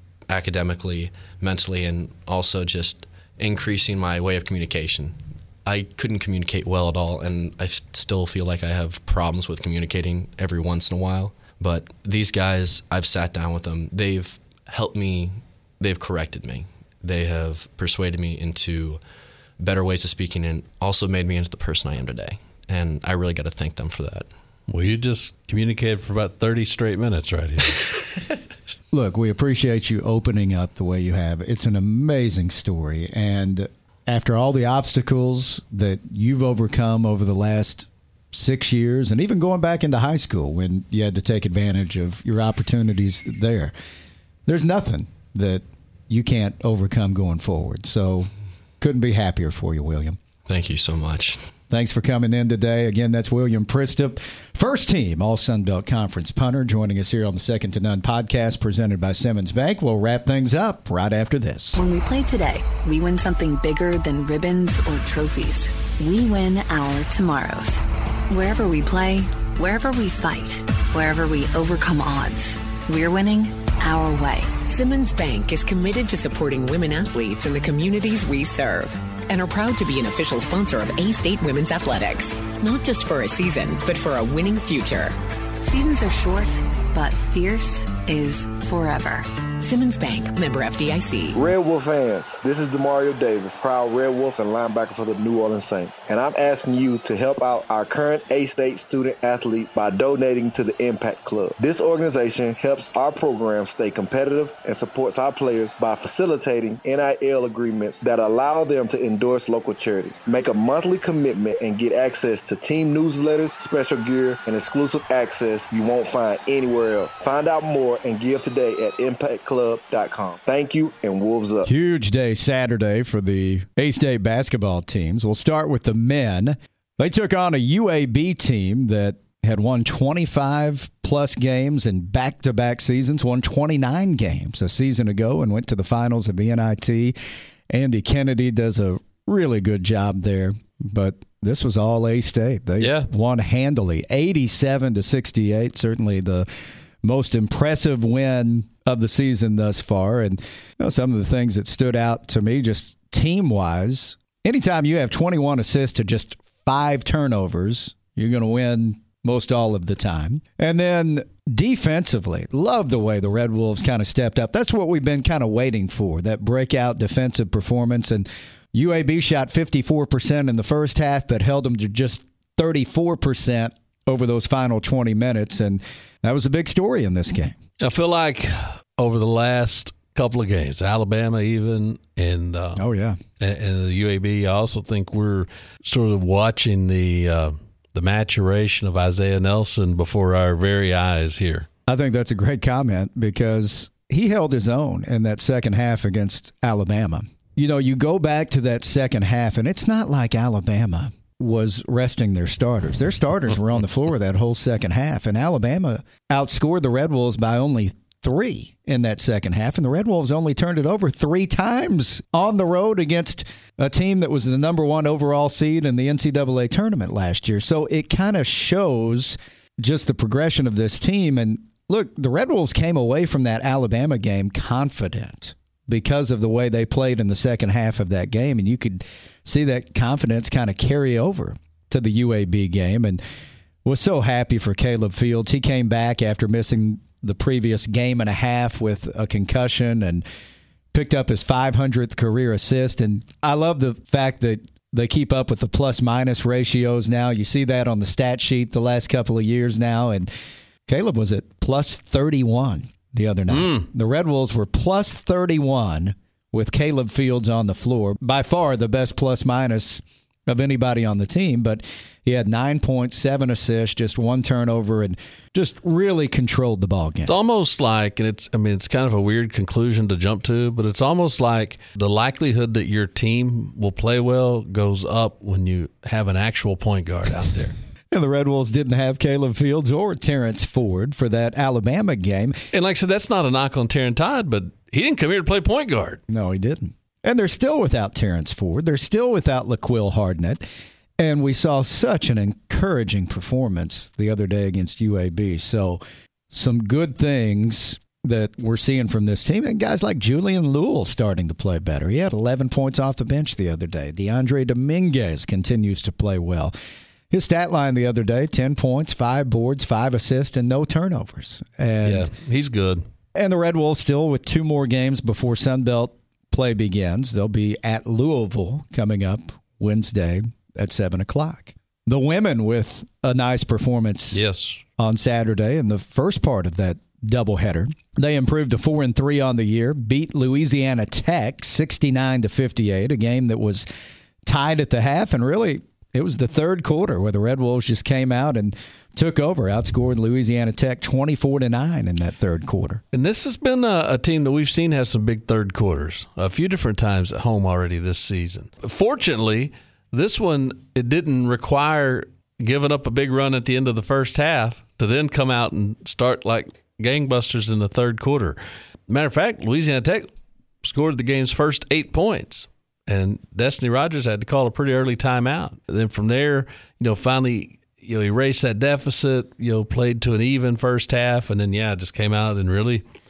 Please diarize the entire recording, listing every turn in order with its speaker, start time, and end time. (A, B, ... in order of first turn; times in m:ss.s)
0:00.3-0:19.0 A
0:19.6-0:24.3 A
0:24.7-0:27.8 B
0:28.9-0:43.7 C
0:44.5-0:50.2 C
0:50.5-0:51.4 A
0:51.7-1:01.8 C
1:01.7-1:14.6 D
1:14.7-1:25.2 E
1:25.6-1:29.3 D
1:29.6-1:31.4 E
1:31.3-2:01.7 F
2:01.7-2:17.2 C
2:17.7-2:26.5 C
2:22.8-2:23.1 B
2:27.0-2:57.6 C
2:57.8-3:02.8 B
3:02.8-3:03.2 C
3:03.4-3:11.7 B
3:11.9-3:53.2 C
3:53.8-4:00.2 C
4:00.9-4:10.3 C
4:10.9-4:27.3 C
4:13.5-4:13.9 B
4:27.3-4:37.8 B
4:38.1-4:42.6 C
4:42.7-4:46.2 B
4:46.3-4:50.7 C
4:51.2-5:06.7 C
5:07.3-5:12.3 C
5:12.0-5:13.0 B
5:13.4-5:24.4 C
5:24.3-5:24.8 B
5:25.0-5:33.9 C
5:34.4-5:43.0 C
5:43.1-5:58.6 B
5:59.1-6:00.3 B
6:00.8-6:13.0 B